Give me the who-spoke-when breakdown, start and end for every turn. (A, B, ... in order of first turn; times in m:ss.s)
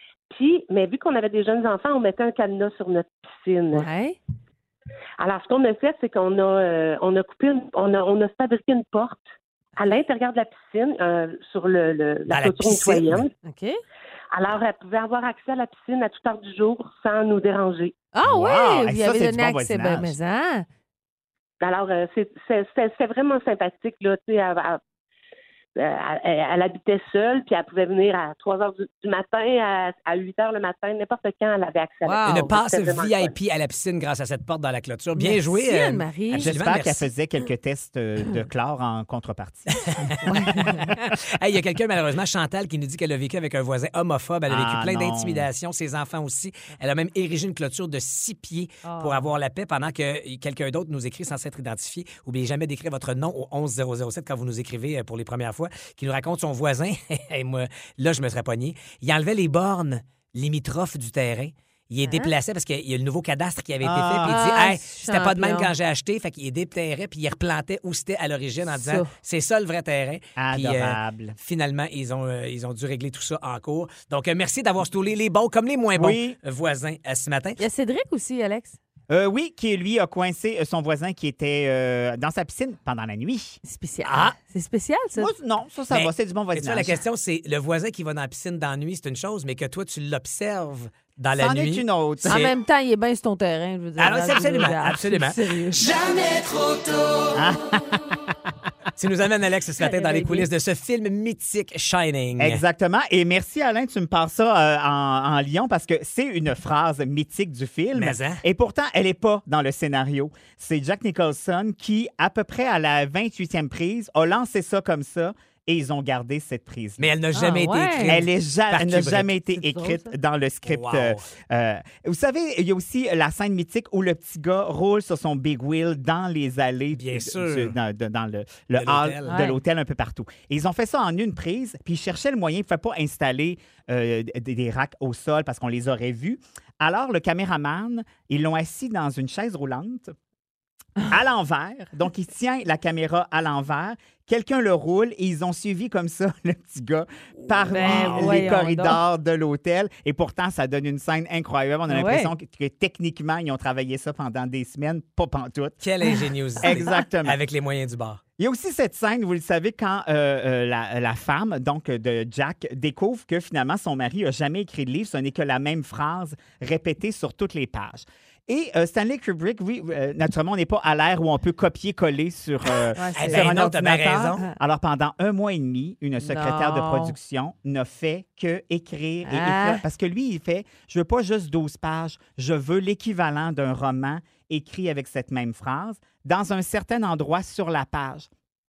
0:00.3-0:03.9 A
0:03.7-0:04.2 B
0:05.2-0:09.2 A
0:09.8-0:13.3 A
0:12.3-0:13.3 C
0:13.4-0:13.8 B
0:14.3-0:17.9 A
0:18.1-0:20.7 B
0:18.2-0:20.2 D
0:21.6-0:24.8 A
0:25.8-0:33.3 A
0:32.0-0:32.5 B
0:32.3-0:37.1 C
0:35.2-0:36.5 B
0:36.4-0:40.8 D
0:40.3-0:40.9 B
0:40.9-1:17.6 C
0:44.5-0:45.5 D
0:48.8-0:49.3 B
1:02.1-1:02.3 B
1:03.8-1:04.5 D
1:04.2-1:05.7 B
1:08.7-1:09.1 B
1:10.4-1:11.4 D
1:16.0-1:16.4 D
1:17.6-1:18.8 B
1:19.1-1:23.6 D
1:23.6-1:25.3 B
1:24.0-1:24.4 C
1:25.2-1:27.0 D
1:25.9-1:32.5 C
1:31.3-1:32.5 D
1:32.3-1:36.0 B
1:34.0-1:35.4 C
1:37.3-1:38.0 D
1:39.0-1:42.6 C
1:39.8-1:40.5 B
1:42.4-1:57.1 D
1:48.0-1:48.4 C
1:57.0-1:59.3 C
1:57.4-1:58.2 B
1:58.1-2:20.1 D
1:59.5-2:00.1 B
2:00.7-2:01.2 C
2:06.9-2:07.8 C
2:08.8-2:09.4 C
2:09.3-2:09.6 B
2:21.0-2:35.8 D
2:27.4-2:28.6 C
2:27.7-2:29.0 B
2:31.9-2:32.3 B
2:35.8-2:38.2 C
2:36.6-2:37.4 D
2:38.4-3:08.3 D
2:53.0-2:53.6 B
2:53.2-2:54.4 C
2:56.2-2:57.2 B
2:59.3-2:59.8 B